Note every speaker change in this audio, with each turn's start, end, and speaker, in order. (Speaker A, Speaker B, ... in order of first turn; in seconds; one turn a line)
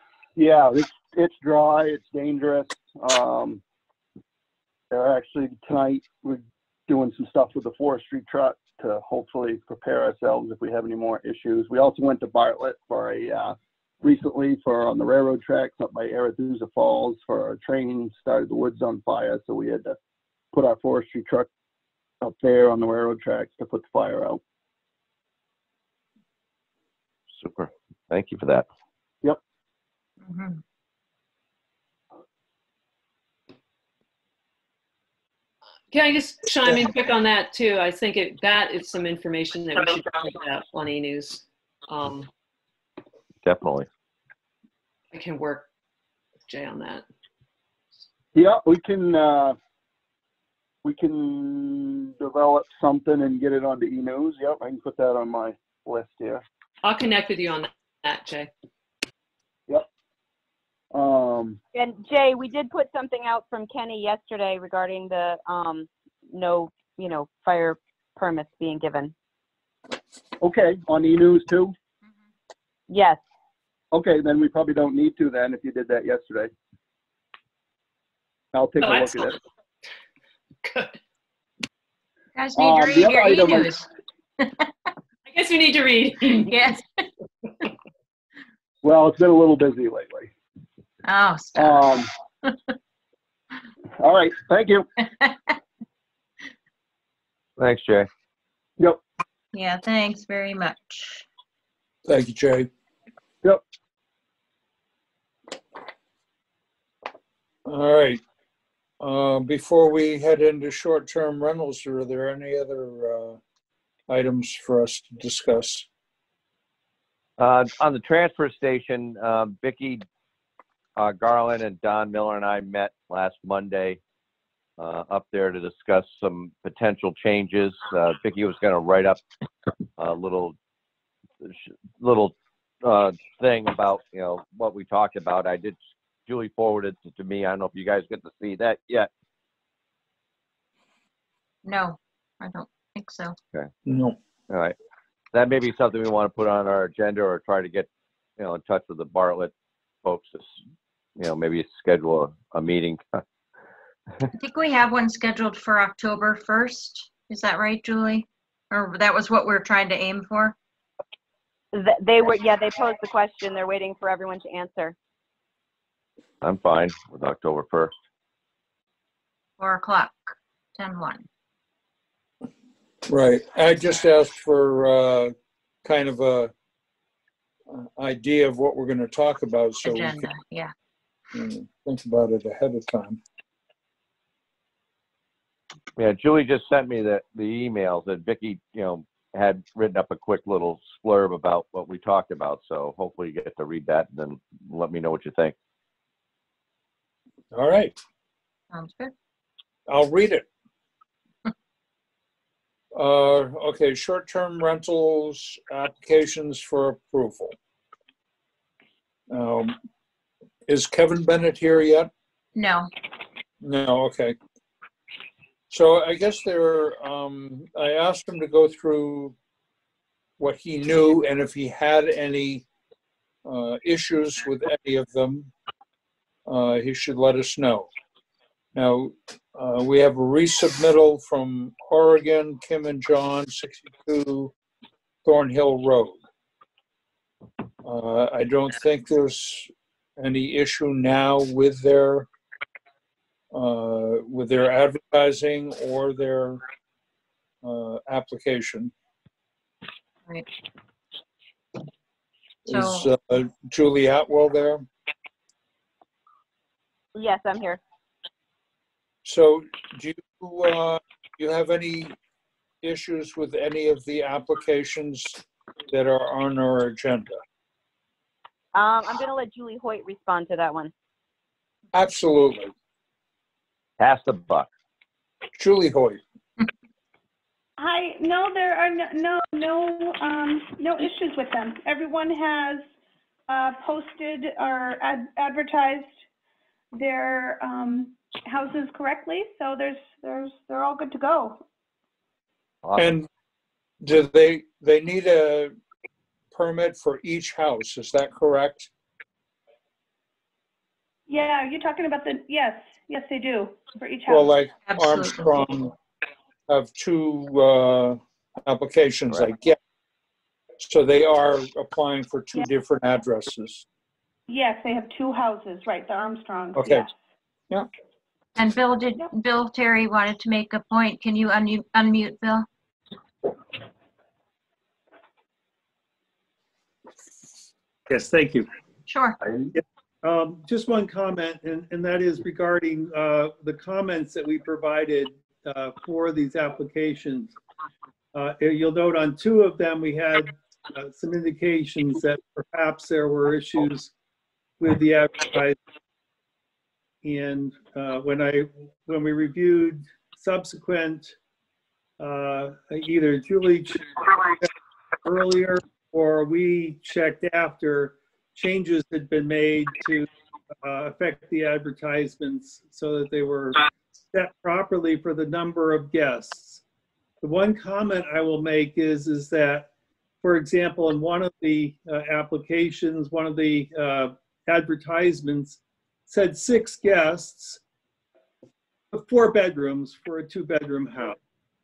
Speaker A: 0.4-3.6
Speaker A: 4.9-19.9
Speaker A: 20.5-21.5
Speaker A: 22.2-24.4
Speaker B: 27.4-28.7
Speaker C: 30.2-30.6
Speaker D: 35.9-42.3
Speaker B: 43.4-43.9
Speaker D: 45.1-45.7
Speaker D: 46.5-47.0
Speaker A: 48.3-49.5
Speaker A: 50.8-56.4
Speaker D: 56.8-58.5
Speaker A: 60.9-61.6
Speaker E: 61.7-69.1
Speaker A: 70.4-71.7
Speaker E: 72.9-73.2
Speaker A: 73.9-76.5
Speaker A: 78.5-79.4
Speaker D: 78.8-79.3
Speaker D: 80.6-81.0
Speaker C: 82.3-83.8
Speaker A: 82.5-83.8
Speaker C: 84.4-84.7
Speaker D: 85.3-86.5
Speaker C: 86.3-87.1
Speaker A: 88.8-90.3
Speaker C: 91.0-92.5
Speaker A: 91.5-92.1
Speaker A: 94.0-94.8
Speaker C: 95.2-95.5
Speaker B: 97.6-98.1
Speaker C: 99.5-101.2
Speaker F: 102.0-102.7
Speaker F: 107.6-108.2
Speaker F: 109.0-113.4
Speaker F: 114.1-115.9
Speaker B: 117.4-120.0
Speaker B: 121.0-124.0
Speaker B: 124.8-129.2
Speaker B: 130.0-130.6
Speaker B: 131.4-139.1
Speaker C: 141.6-143.3
Speaker F: 143.8-144.2
Speaker B: 144.5-144.7
Speaker B: 145.3-149.5
Speaker B: 150.0-150.5
Speaker B: 151.2-153.2
Speaker C: 154.3-160.5
Speaker E: 161.7-164.9
Speaker B: 166.4-167.9
Speaker C: 169.6-171.3
Speaker F: 173.1-176.5
Speaker F: 177.7-180.3
Speaker C: 179.8-180.7
Speaker F: 181.3-183.2
Speaker B: 185.9-195.6
Speaker F: 197.5-198.0
Speaker C: 198.7-199.1
Speaker F: 199.9-200.5
Speaker F: 202.9-207.5
Speaker F: 209.3-209.8
Speaker F: 210.7-212.1
Speaker C: 212.6-212.9
Speaker F: 213.6-214.3
Speaker F: 215.7-219.3
Speaker F: 220.4-222.7
Speaker F: 223.4-225.5
Speaker F: 226.5-227.9
Speaker F: 228.7-234.5
Speaker F: 235.2-236.2
Speaker F: 237.8-242.3
Speaker F: 243.5-246.6
Speaker F: 247.6-248.9
Speaker F: 252.7-254.8
Speaker C: 252.7-253.1
Speaker E: 257.1-257.8
Speaker F: 259.2-262.1
Speaker F: 262.8-267.4
Speaker E: 268.7-270.9
Speaker F: 271.9-272.7
Speaker B: 274.0-274.7
Speaker F: 275.6-276.2
Speaker G: 277.8-282.9
Speaker G: 283.5-286.1
Speaker G: 286.9-291.6
Speaker F: 292.9-293.3
Speaker F: 294.0-295.7
Speaker F: 296.5-298.9
Speaker G: 301.3-304.5
Speaker F: 304.3-305.9
Speaker C: 304.9-305.5
Speaker F: 306.7-309.8
Speaker F: 310.8-313.8
Speaker G: 314.5-317.1
Speaker F: 316.7-317.1
Speaker C: 318.6-322.7
Speaker H: 328.1-328.7
Speaker C: 329.1-329.4
Speaker H: 329.7-337.5
Speaker H: 338.3-344.1
Speaker H: 344.8-345.8
Speaker H: 347.2-351.4
Speaker H: 352.2-354.7
Speaker H: 355.2-360.3
Speaker H: 360.8-366.8
Speaker H: 367.4-369.9
Speaker H: 370.4-377.8
Speaker H: 379.1-381.4